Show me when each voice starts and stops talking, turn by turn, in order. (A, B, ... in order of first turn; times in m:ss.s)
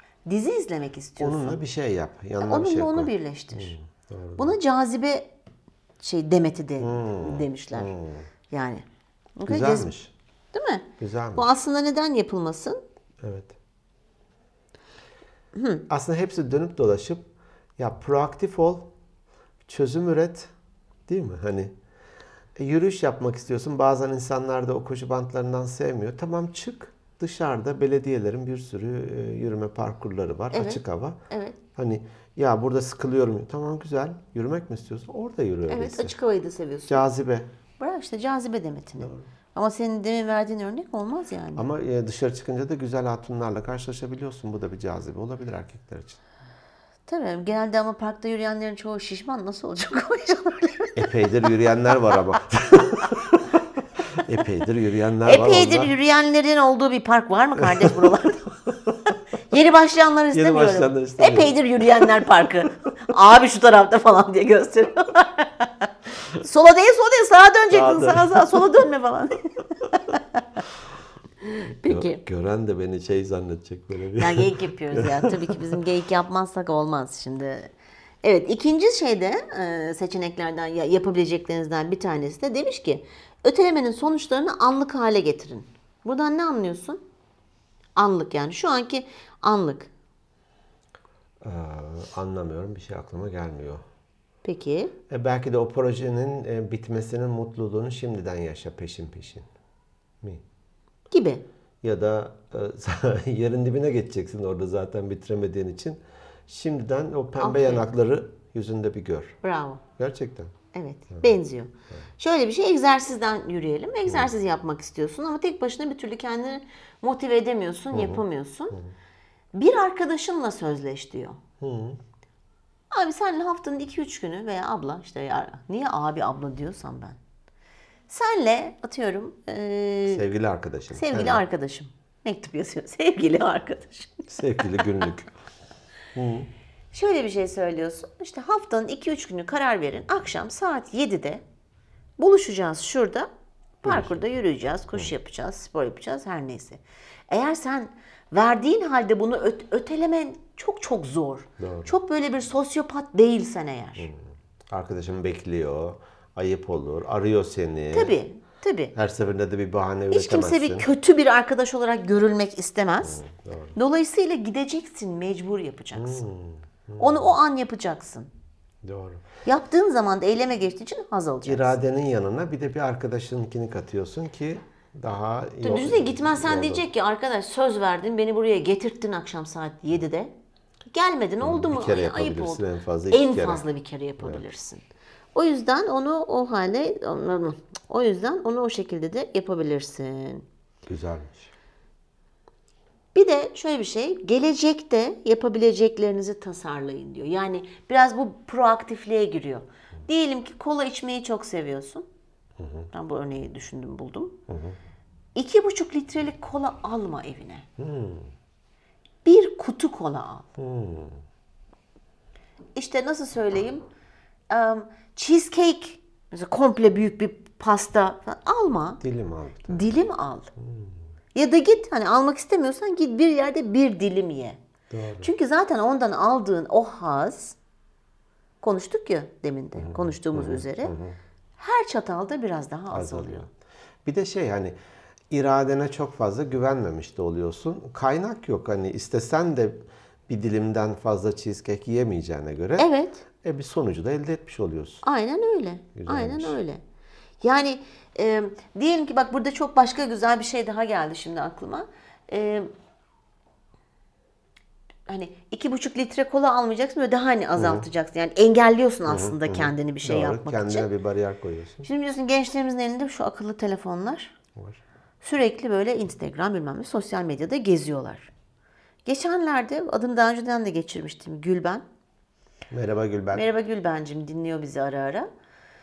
0:00.2-0:01.6 A
0:01.2-0:04.6 B
0:02.4-0:03.8 A
0:04.4-0:05.3 A
0:06.0-0:07.9 A
0:06.8-0:08.2 B
0:08.5-0:08.8 A
0:09.4-0:09.9 A
0:09.4-0:10.1 B
0:10.5-0:12.8 A
0:11.0-0:11.5 B
0:13.2-0:13.5 B
0:15.5-0:15.8 A
0:15.9-0:18.9 B
0:19.6-0:20.5 B
0:21.1-0:21.7 B
0:22.6-0:31.2 B
0:30.5-0:31.6 A
0:31.8-0:36.1 B
0:35.7-0:37.1 A
0:36.9-0:37.5 B
0:37.8-0:41.6 A
0:39.0-0:39.3 B
0:41.6-0:46.2 B
0:47.1-0:51.3 A
0:51.0-0:55.9 B
0:55.2-0:58.5 A
0:57.6-0:59.1 B
0:59.5-1:10.4 A
1:00.3-1:02.3 B
1:07.7-1:08.6 B
1:11.4-1:12.2 A
1:11.8-1:15.7 B
1:14.2-1:17.7 A
1:18.2-1:27.0 A
1:28.0-1:29.9 A
1:31.4-1:33.8 B
1:34.4-1:34.9 A
1:35.1-1:39.5 B
1:41.1-1:41.4 A
1:41.8-1:49.4 B
1:47.4-1:47.8 A
1:49.4-1:49.8 A
1:50.0-1:50.5 B
1:50.7-1:58.8 A
1:57.9-1:58.9 B
1:59.5-2:01.4 A
2:01.6-2:02.0 B
2:02.9-2:07.2 A
2:08.1-2:10.2 A
2:10.1-2:11.4 B
2:10.9-2:15.1 A
2:14.3-2:15.3 B
2:16.1-2:16.5 B
2:16.9-2:21.4 A
2:22.2-2:23.3 A
2:23.8-2:34.1 A
2:23.8-2:24.2 B
2:31.6-2:31.9 B
2:34.0-2:38.2 B
2:37.9-2:38.9 A
2:38.9-2:40.9 B
2:40.1-2:43.2 A
2:43.0-2:43.7 B
2:43.8-2:46.2 A
2:46.0-2:47.3 B
2:47.0-2:48.3 A
2:48.8-2:49.2 B
2:49.4-2:51.8 A
2:51.4-2:56.8 B
2:55.6-3:00.3 A
3:00.9-3:04.8 A
3:01.4-3:03.6 B
3:05.3-3:10.4 A
3:10.9-3:11.5 B
3:13.1-3:22.0 A
3:22.6-3:22.9 B
3:22.9-3:24.4 A
3:24.5-3:24.8 B
3:25.3-3:27.6 A
3:27.8-3:28.3 B
3:29.2-3:30.5 A
3:30.6-3:31.2 B
3:32.7-3:33.8 A
3:34.5-3:39.0 A
3:39.0-3:39.9 B
3:39.7-3:40.5 A
3:40.6-3:41.0 B
3:41.3-3:44.6 A
3:44.9-3:45.3 B
3:45.2-3:47.6 A
3:48.6-3:50.9 A
3:49.8-3:51.2 B
3:51.6-3:53.5 A
3:52.9-3:53.5 B
3:54.0-3:54.7 B
3:55.3-4:02.9 B
4:02.8-4:03.2 A
4:03.4-4:05.0 B
4:05.0-4:06.8 A
4:06.0-4:06.6 B
4:07.4-4:12.7 A
4:15.1-4:20.9 A
4:17.6-4:17.8 B
4:19.1-4:21.9 B
4:21.8-4:24.3 A
4:25.2-4:28.3 A
4:29.0-4:31.8 A
4:32.7-4:33.4 B
4:33.3-4:35.3 A